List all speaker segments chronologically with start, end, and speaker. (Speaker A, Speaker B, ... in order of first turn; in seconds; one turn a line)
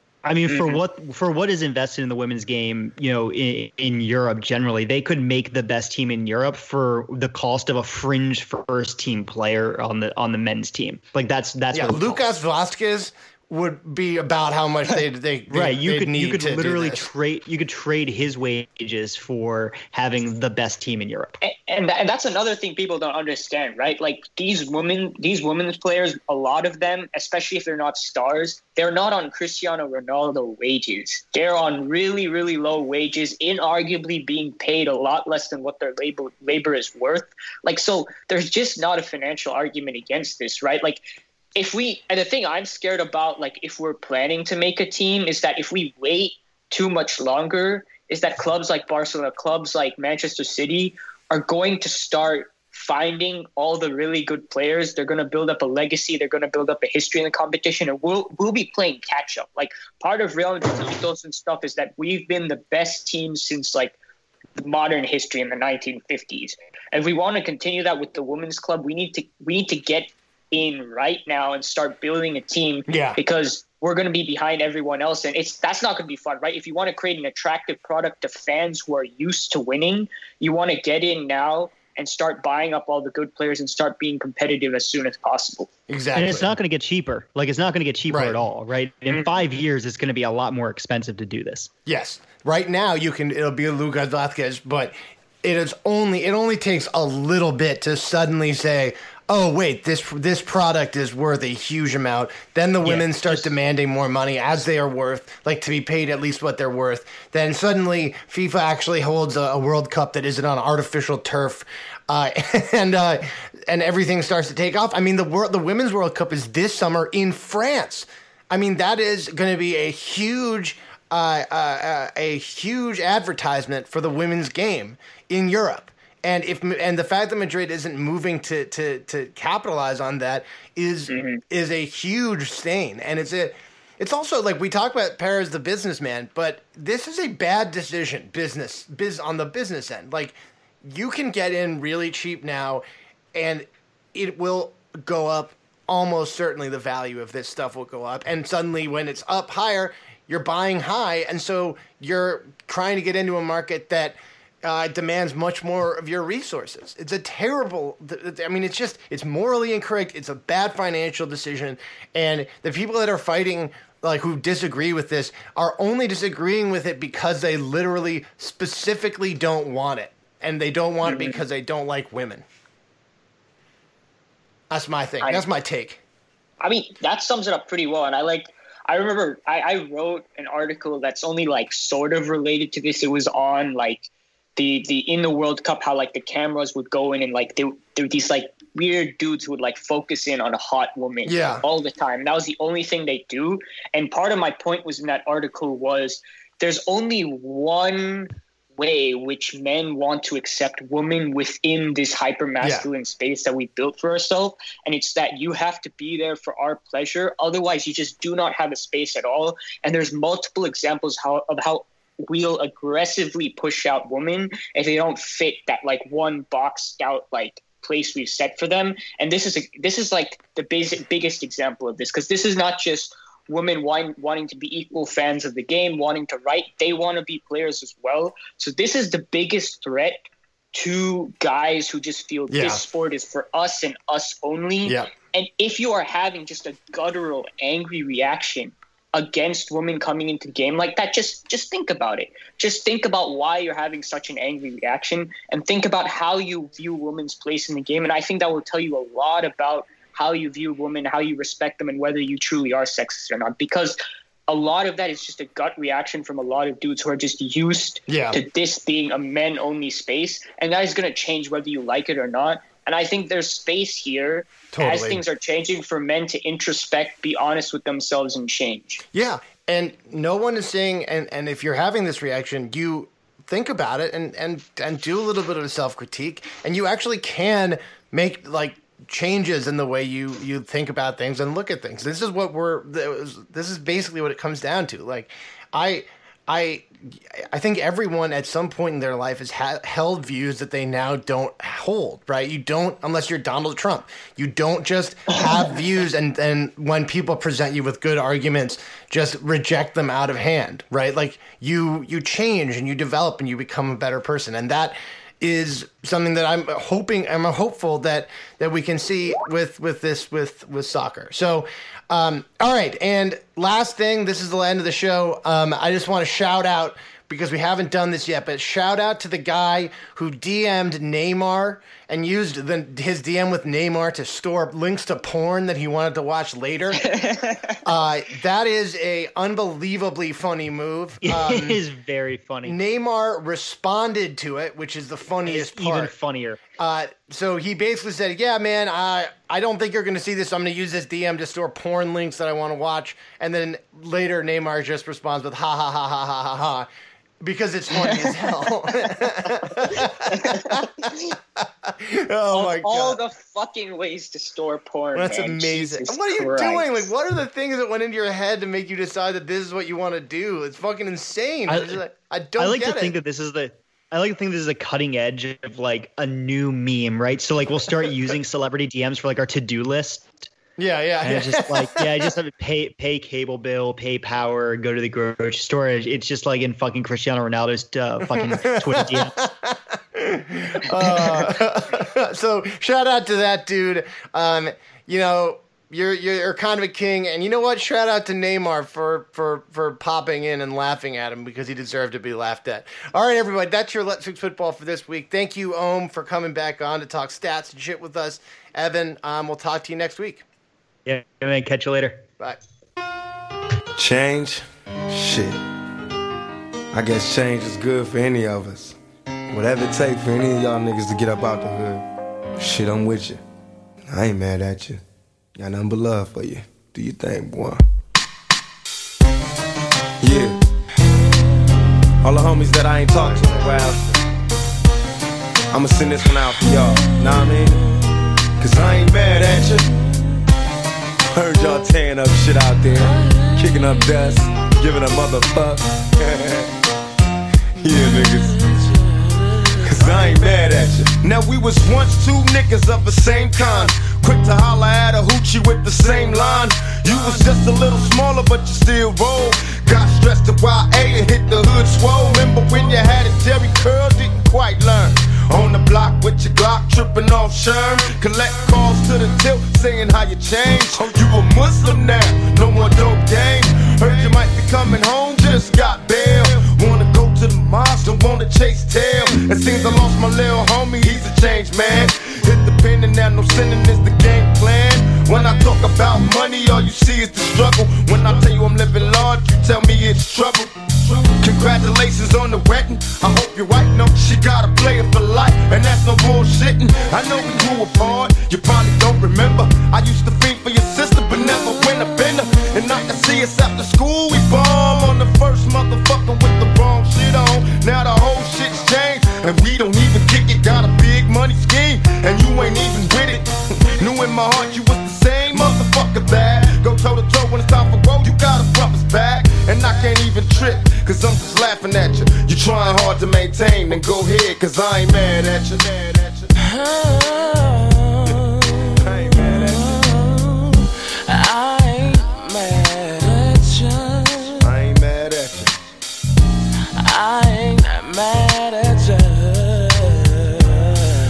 Speaker A: 0.2-12.2
Speaker B: 0.5-0.8
Speaker C: 11.7-17.1
Speaker A: 15.5-21.4
Speaker B: 21.4-41.0
Speaker B: 41.5-63.9
Speaker B: 64.6-85.7
Speaker C: 72.9-73.2
Speaker C: 85.9-86.5
Speaker A: 86.1-91.7
Speaker C: 88.1-88.4
Speaker C: 91.8-172.4
Speaker A: 102.8-103.5
Speaker B: 131.1-131.4
Speaker B: 171.0-171.4
Speaker C: 174.7-176.0
Speaker B: 176.6-269.0
Speaker C: 191.2-191.6
Speaker C: 202.6-202.9
Speaker C: 232.5-232.8
Speaker C: 234.8-235.1
Speaker C: 258.1-258.4
Speaker C: 264.7-265.2
Speaker C: 269.1-327.0
Speaker B: 326.9-327.8
Speaker C: 327.8-331.8
Speaker A: 331.2-332.8
Speaker C: 332.6-336.1
Speaker A: 335.4-336.6
Speaker C: 336.8-346.9
Speaker C: 347.4-353.2
Speaker B: 349.8-351.3
Speaker B: 352.5-357.1
Speaker C: 355.1-363.1
Speaker A: 361.7-362.0
Speaker A: 362.6-370.5
Speaker C: 370.8-372.2
Speaker A: 371.2-379.4
Speaker C: 378.2-400.4
Speaker A: 401.1-402.2
Speaker D: 404.0-405.6
Speaker D: 406.9-408.9
Speaker D: 409.5-412.0
Speaker D: 412.6-413.4
Speaker D: 414.1-415.0
Speaker D: 415.6-417.8
Speaker D: 420.2-420.6
Speaker D: 422.2-424.1
Speaker D: 425.7-427.8
Speaker E: 426.6-427.7
Speaker D: 428.6-429.9
Speaker D: 431.3-436.6
Speaker E: 433.0-434.3
Speaker E: 437.8-440.2
Speaker D: 437.8-438.5
Speaker D: 439.9-516.5
Speaker E: 516.5-524.7
Speaker D: 519.0-520.0
Speaker D: 524.6-525.8
Speaker E: 527.0-531.1